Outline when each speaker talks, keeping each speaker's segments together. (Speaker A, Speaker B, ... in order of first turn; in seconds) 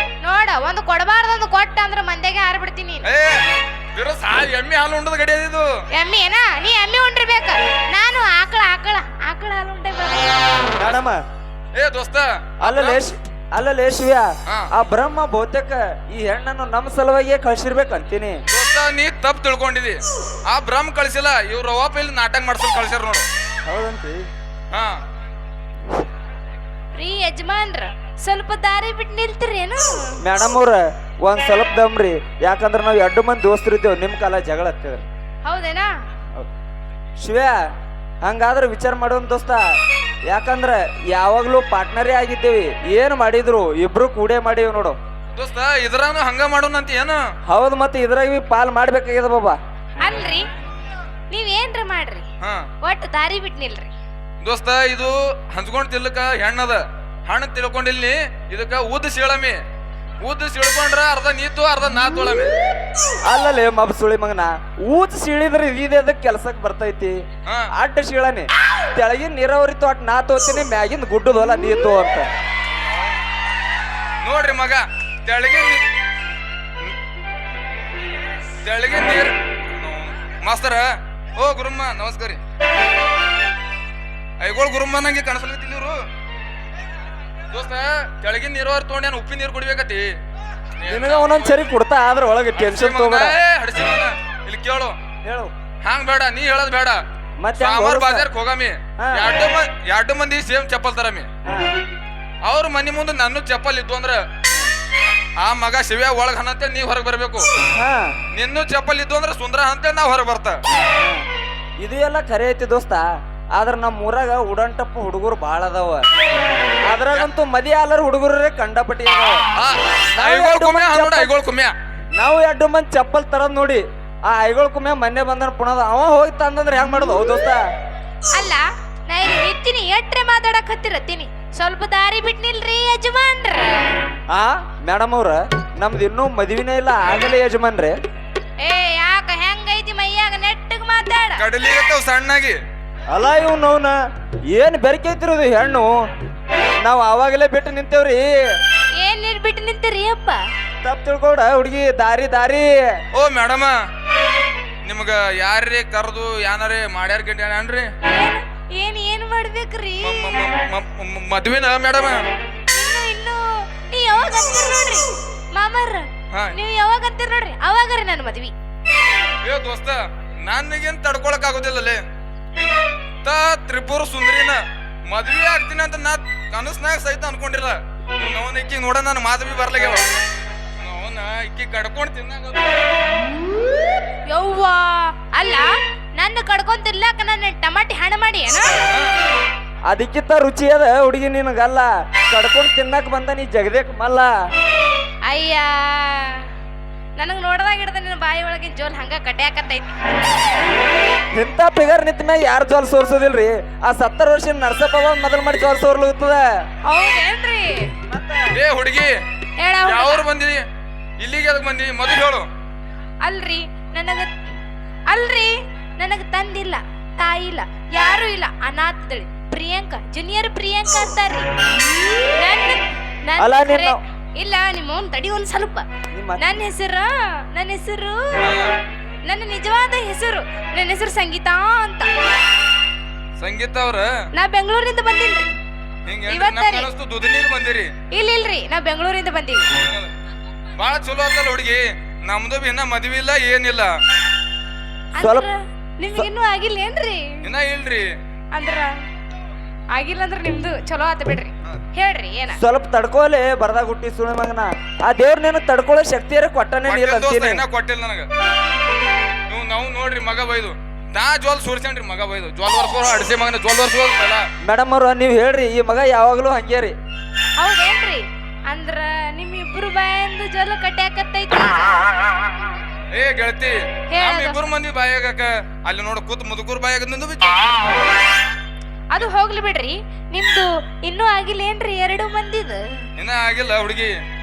Speaker A: 0.2-3.0, 5.9-10.6, 26.9-30.2, 35.4-35.9, 50.0-50.4, 51.3-52.3, 52.8-53.9, 128.3-133.9, 138.6-141.4, 149.0-150.4, 158.0-160.4, 162.7-168.5, 184.3-188.8, 195.2-196.5, 197.2-199.9, 206.8-207.9, 209.6-210.2, 213.2-214.3, 215.1-221.5, 222.3-225.8, 226.4-228.4, 229.2-232.1, 234.3-235.5, 236.3-236.9, 238.1-239.7, 245.1-247.4, 248.5-248.9, 249.9-252.6, 267.6-272.0, 274.1-274.6, 279.1-282.8
Speaker B: 3.0-3.4, 4.0-5.8, 11.8-13.0, 18.5-23.3, 24.7-25.0, 45.3-47.2, 54.4-59.6, 60.2-62.5, 74.2-75.8, 78.6-82.4, 84.4-86.0, 87.5-90.1, 90.8-91.6, 92.5-95.0, 95.8-97.0, 97.6-101.3, 102.5-104.2, 105.4-107.5, 108.3-110.6, 119.5-121.7, 141.4-142.6, 153.1-153.8, 154.8-157.9, 160.0-162.2, 169.4-172.0, 172.6-180.1, 180.8-182.7, 208.5-209.1, 209.8-210.6, 211.2-212.5, 228.4-228.7, 233.4-234.1, 236.1-237.9, 239.8-240.1, 240.8-244.0, 247.4-248.1, 256.9-258.3, 259.5-264.4, 273.1-277.7, 283.2-284.1
Speaker C: 10.8-11.2, 12.6-18.4, 23.6-24.2, 30.2-35.0, 37.2-37.6, 38.2-45.0, 47.5-49.6, 63.2-67.2, 67.7-72.3, 90.9-93.3, 95.2-95.5, 97.4-98.2, 99.0-99.3, 101.5-101.7, 107.8-108.2, 111.0-111.2, 111.8-116.0, 116.9-119.4, 120.2-121.3, 122.1-127.7, 134.3-138.0, 143.1-144.0, 144.5-145.9, 146.8-148.6, 150.8-153.0, 189.9-194.3, 201.3-206.4, 208.1-208.5, 223.4-224.0, 226.1-226.4, 245.2-245.5, 252.6-257.6, 264.6-266.9